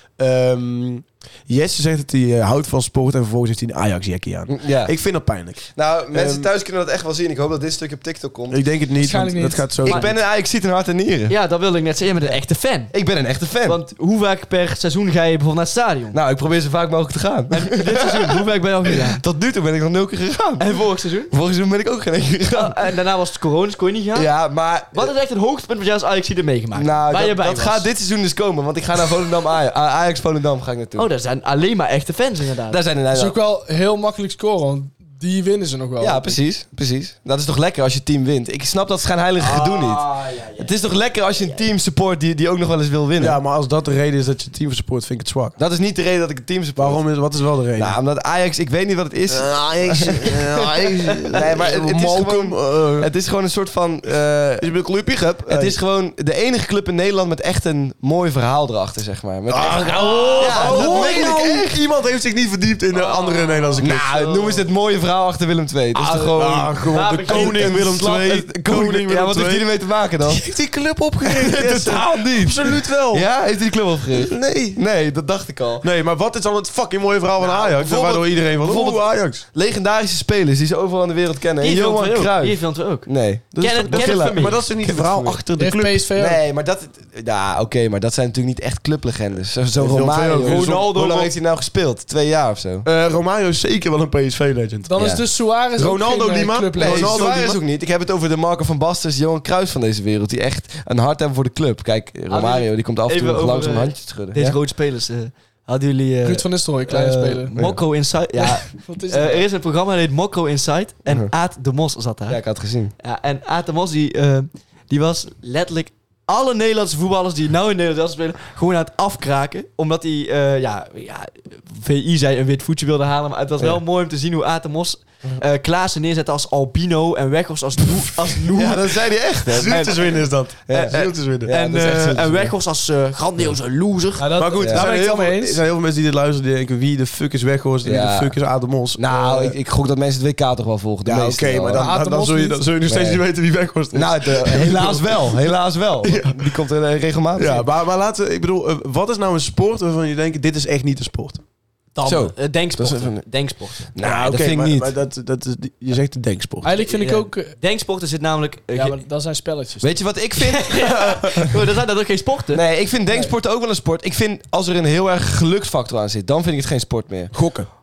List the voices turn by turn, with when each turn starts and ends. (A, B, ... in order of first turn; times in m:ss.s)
0:00.2-0:06.5 A
0:04.5-0:04.9 B
0:05.7-0:08.6 B
0:08.5-0:10.1 A
0:09.0-0:09.7 C
0:09.8-0:10.1 D
0:09.8-0:11.4 B
0:11.3-0:13.0 D
0:12.9-0:13.8 B
0:13.6-0:16.2 D
0:16.1-0:20.7 B
0:17.5-0:19.2 D
0:20.6-0:21.3 D
0:21.3-0:22.8 B
0:22.5-0:24.4 D
0:24.1-0:25.1 B
0:24.9-0:27.9 D
0:26.7-0:31.1 B
0:31.0-0:32.8 D
0:32.7-0:33.4 B
0:33.1-0:36.4 C
0:36.0-0:43.4 B
0:39.4-0:40.8 D
0:41.4-0:41.6 D
0:43.2-0:45.6 A
0:45.6-0:47.0 B
0:46.8-0:48.0 A
0:47.8-0:54.7 B
0:49.3-0:53.1 A
0:54.6-0:55.8 A
0:55.4-1:01.8 B
0:59.5-1:04.1 A
0:59.8-1:01.4 D
1:02.9-1:04.7 D
1:03.8-1:10.5 B
1:06.0-1:09.7 A
1:06.9-1:07.9 D
1:10.3-1:13.3 A
1:11.2-1:15.9 B
1:15.8-1:19.4 A
1:17.4-1:25.4 B
1:21.6-1:24.8 D
1:23.5-1:26.0 A
1:25.6-1:26.4 C
1:26.2-1:32.9 B
1:29.8-1:31.0 A
1:30.4-1:31.3 D
1:32.8-1:34.9 A
1:34.9-1:37.2 C
1:35.0-1:35.2 B
1:35.8-1:37.6 A
1:36.8-1:44.6 B
1:42.3-1:52.4 D
1:46.2-1:47.5 C
1:47.6-1:47.8 B
1:48.4-1:49.4 C
1:52.3-1:52.9 B
1:53.0-2:14.3 D
2:08.5-2:12.6 B
2:09.5-2:11.5 A
2:14.2-2:15.6 C
2:14.4-2:19.6 A
2:14.6-2:14.9 B
2:17.8-2:18.4 B
2:19.0-2:21.9 B
2:21.0-2:25.4 A
2:21.8-2:22.6 C
2:22.9-2:23.2 B
2:23.9-2:27.7 B
2:26.0-2:26.6 A
2:27.4-2:31.4 A
2:32.0-2:33.9 D
2:32.0-2:33.2 B
2:33.9-2:34.9 B
2:34.0-2:36.7 A
2:36.6-2:37.6 C
2:36.8-2:39.0 D
2:38.7-2:40.0 C
2:39.8-2:41.5 B
2:40.4-2:42.6 D
2:42.5-2:47.4 B
2:47.3-2:47.7 A